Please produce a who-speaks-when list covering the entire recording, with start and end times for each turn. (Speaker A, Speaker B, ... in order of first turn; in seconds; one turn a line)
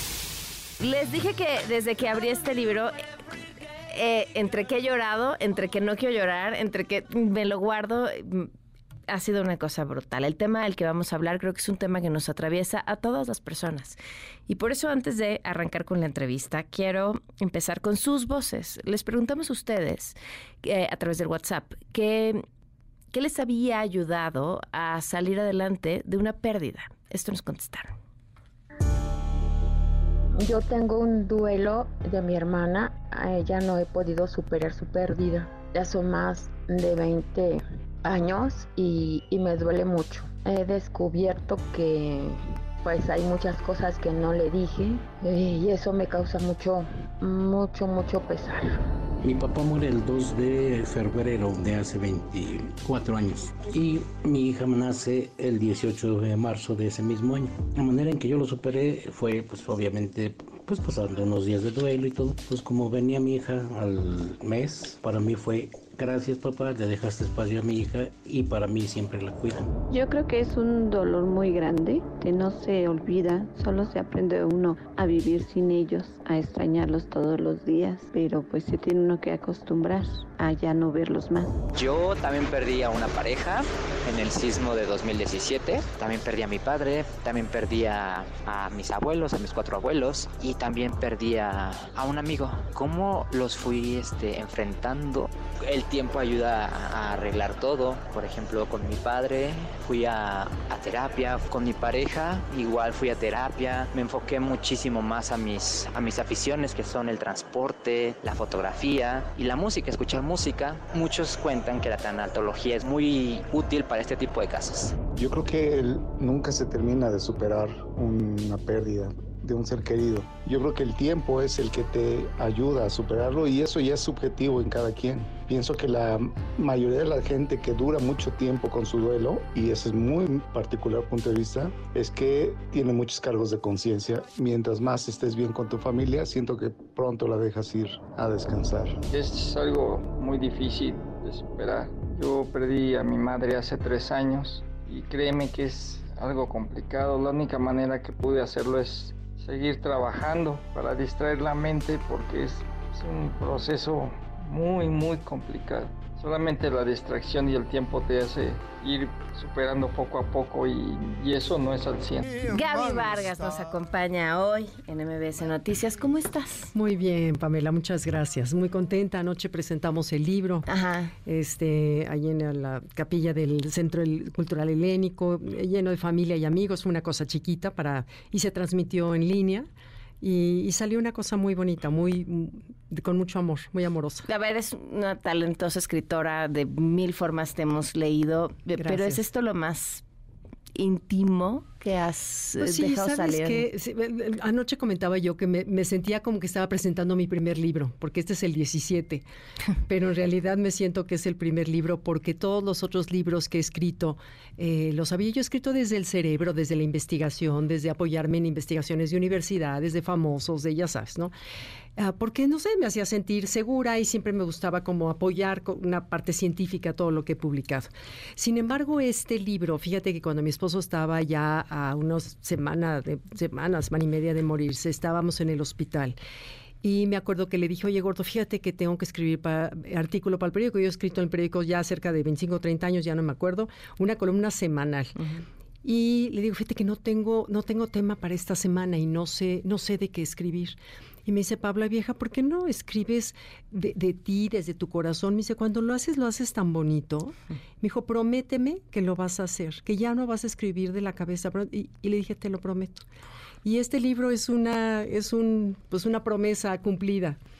Speaker A: 0.8-2.9
Speaker A: 3.9-8.5
Speaker A: 9.1-22.4
Speaker A: 23.1-27.9
Speaker B: 30.4-48.6
Speaker C: 49.2-69.7
Speaker D: 69.9-81.5
Speaker E: 81.7-115.0
Speaker F: 115.1-138.9
Speaker G: 139.1-162.5
Speaker A: 162.4-166.7
Speaker H: 166.7-170.7
Speaker A: 170.7-171.1
Speaker H: 171.2-179.7
Speaker H: 180.2-184.2
Speaker A: 184.2-190.0
Speaker H: 188.8-189.2
Speaker A: 190.7-193.7
Speaker H: 192.6-199.2
Speaker H: 199.8-211.3
Speaker H: 212.0-226.2
Speaker H: 226.8-235.2
Speaker A: 235.2-235.4
Speaker H: 235.8-253.0
Speaker H: 253.6-257.4